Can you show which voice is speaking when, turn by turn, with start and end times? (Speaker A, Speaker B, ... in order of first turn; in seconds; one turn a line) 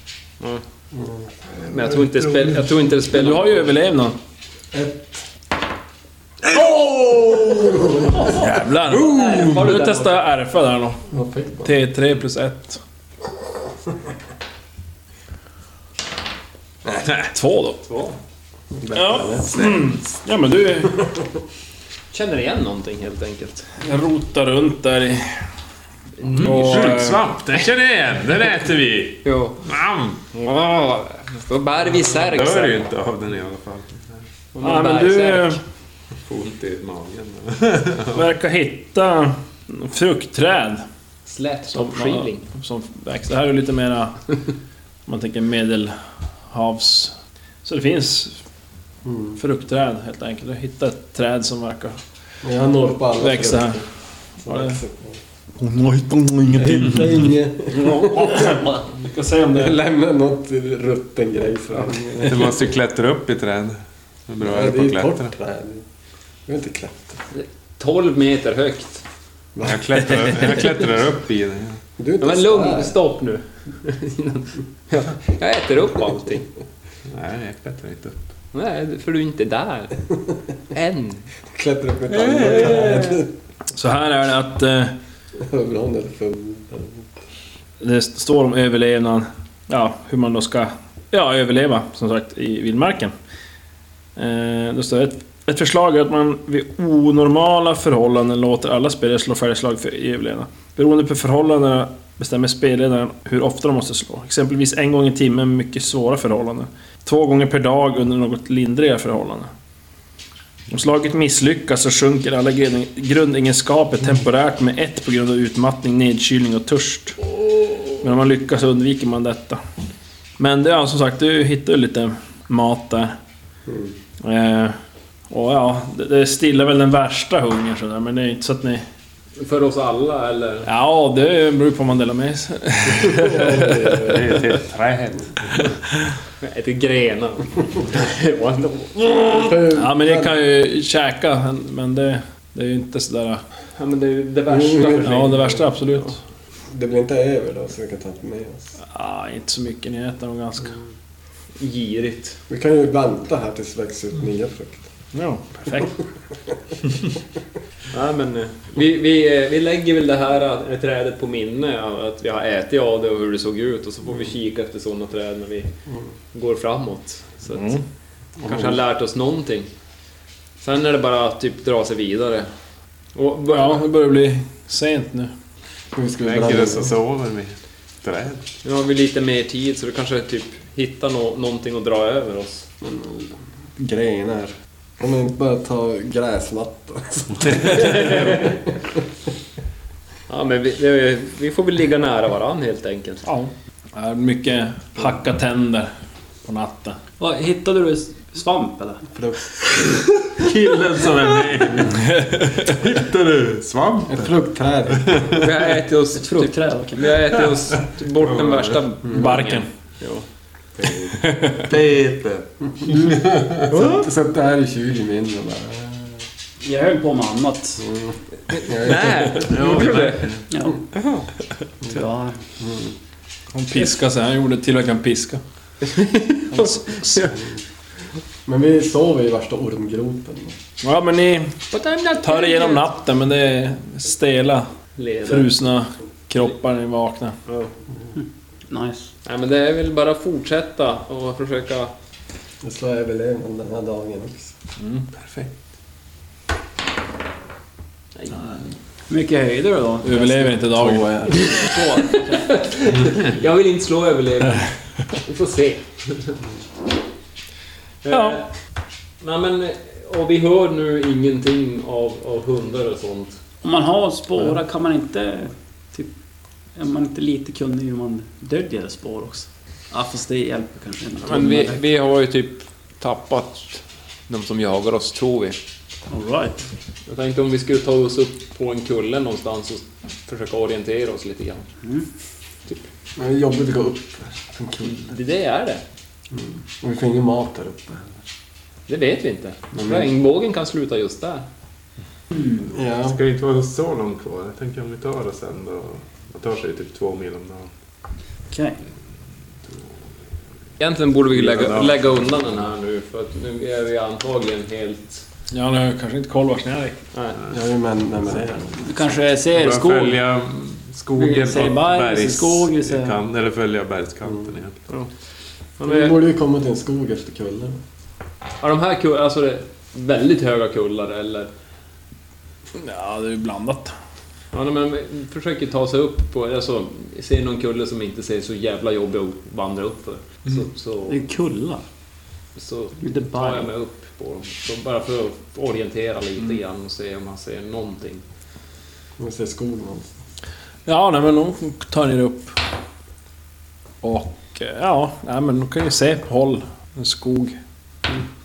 Speaker A: 0.9-2.7
Speaker B: 1.7-3.6
Speaker C: 3.1-4.2
Speaker A: 4.7-5.2
Speaker A: 6.4-8.4
Speaker C: 8.2-11.1
Speaker B: 8.9-10.2
Speaker A: 11.1-11.8
Speaker C: 11.6-12.8
Speaker C: 17.3-17.8
Speaker B: 17.9-18.2
Speaker A: 18.7-19.7
Speaker C: 18.9-21.1
Speaker B: 22.1-23.7
Speaker C: 23.8-25.5
Speaker B: 26.2-27.0
Speaker D: 26.2-30.5
Speaker C: 26.4-27.2
Speaker B: 29.2-29.6
Speaker B: 30.3-32.9
Speaker D: 31.9-34.2
Speaker B: 34.5-35.6
Speaker C: 34.6-35.6
Speaker D: 36.2-38.3
Speaker C: 38.1-40.8
Speaker B: 41.3-42.5
Speaker C: 41.7-44.2
Speaker C: 45.1-46.0
Speaker C: 46.5-48.4
Speaker A: 49.0-49.4
Speaker C: 49.4-52.0
Speaker A: 52.4-53.9
Speaker C: 53.2-53.8
Speaker A: 54.4-55.2
Speaker C: 54.5-54.8
Speaker C: 55.6-57.2
Speaker A: 56.5-58.8
Speaker C: 57.9-59.8
Speaker A: 59.5-62.5
Speaker D: 62.2-63.8
Speaker D: 64.3-65.3
Speaker A: 64.4-65.8
Speaker A: 66.5-67.2
Speaker B: 67.3-69.0
Speaker A: 69.6-70.4
Speaker D: 69.6-71.8
Speaker A: 72.0-73.0
Speaker B: 72.2-76.5
Speaker D: 77.1-78.2
Speaker B: 78.5-80.0
Speaker B: 80.7-81.3
Speaker A: 81.5-83.3
Speaker D: 82.2-83.0
Speaker B: 82.6-83.1
Speaker C: 83.7-85.0
Speaker A: 85.3-87.1
Speaker C: 87.8-93.1
Speaker C: 94.2-109.5
Speaker C: 110.7-117.2
Speaker C: 118.0-119.6
Speaker C: 120.4-123.1
Speaker A: 123.7-123.9
Speaker C: 124.2-124.8
Speaker C: 125.3-128.8
Speaker B: 129.4-130.7
Speaker C: 130.7-134.0
Speaker A: 133.1-134.2
Speaker D: 133.8-135.8
Speaker B: 136.4-139.7
Speaker A: 139.4-140.3
Speaker C: 139.7-143.4
Speaker B: 143.8-145.8
Speaker A: 144.5-145.5
Speaker C: 145.0-146.2
Speaker A: 146.7-148.7
Speaker C: 148.8-150.7
Speaker B: 151.6-152.4
Speaker A: 152.5-154.8
Speaker C: 155.1-156.0
Speaker B: 157.9-165.7
Speaker B: 166.3-167.7
Speaker C: 167.6-167.8
Speaker A: 168.4-168.7
Speaker B: 168.4-169.7
Speaker B: 170.6-172.5
Speaker B: 173.2-173.8
Speaker C: 173.5-175.3
Speaker A: 175.9-176.9
Speaker D: 176.2-178.5
Speaker B: 178.6-182.7
Speaker A: 182.8-189.0
Speaker B: 187.9-188.3
Speaker B: 190.3-193.2
Speaker C: 193.2-195.9
Speaker C: 196.4-197.0
Speaker E: 197.2-199.1
Speaker A: 199.1-200.0
Speaker D: 200.3-204.3
Speaker C: 201.9-202.8
Speaker A: 204.1-205.4
Speaker D: 204.9-205.5
Speaker B: 205.3-210.2
Speaker E: 206.2-207.1
Speaker D: 207.4-208.9
Speaker A: 209.0-209.4
Speaker C: 209.1-209.7
Speaker D: 210.8-212.5
Speaker C: 211.2-211.6
Speaker A: 212.8-213.1
Speaker A: 213.7-216.2
Speaker B: 213.7-214.1
Speaker E: 216.6-217.8
Speaker A: 217.8-219.6
Speaker B: 218.5-220.4
Speaker D: 219.3-220.5
Speaker E: 220.5-220.8
Speaker B: 220.9-221.3
Speaker E: 221.9-222.4
Speaker A: 222.6-222.9
Speaker C: 223.5-225.4
Speaker B: 225.8-227.3
Speaker C: 226.5-227.3
Speaker A: 228.5-230.6
Speaker C: 230.8-231.6
Speaker B: 231.7-232.9
Speaker C: 232.2-234.7
Speaker B: 235.0-235.5
Speaker C: 235.3-237.3
Speaker B: 237.5-237.7
Speaker E: 238.2-239.1
Speaker B: 239.2-241.9
Speaker A: 242.6-244.5
Speaker C: 244.8-245.1
Speaker B: 248.2-248.6
Speaker E: 249.1-250.6
Speaker C: 250.0-251.3
Speaker A: 250.8-251.5
Speaker E: 251.3-252.6
Speaker B: 251.4-256.4
Speaker B: 258.0-258.5
Speaker C: 258.1-258.4
Speaker B: 259.2-263.4
Speaker E: 263.6-266.1
Speaker E: 266.8-271.8
Speaker B: 271.2-275.6
Speaker E: 276.1-276.6
Speaker B: 277.1-281.6
Speaker A: 283.2-285.1
Speaker B: 284.9-285.8
Speaker A: 286.3-288.2
Speaker B: 288.9-291.4
Speaker A: 289.7-290.1
Speaker A: 292.7-293.2
Speaker D: 293.0-297.7
Speaker E: 298.5-298.8
Speaker B: 300.8-305.2
Speaker D: 301.3-302.4
Speaker C: 305.5-307.0
Speaker B: 307.1-307.4
Speaker A: 307.5-308.9
Speaker E: 308.8-310.2
Speaker D: 309.5-314.8
Speaker E: 311.2-313.2
Speaker B: 315.8-316.2
Speaker A: 315.8-317.8
Speaker B: 318.6-321.5
Speaker C: 322.8-323.9
Speaker B: 324.5-331.2
Speaker E: 331.1-331.8
Speaker B: 332.6-338.2
Speaker E: 333.0-333.7
Speaker A: 339.2-340.2
Speaker C: 340.9-342.6
Speaker C: 344.0-347.6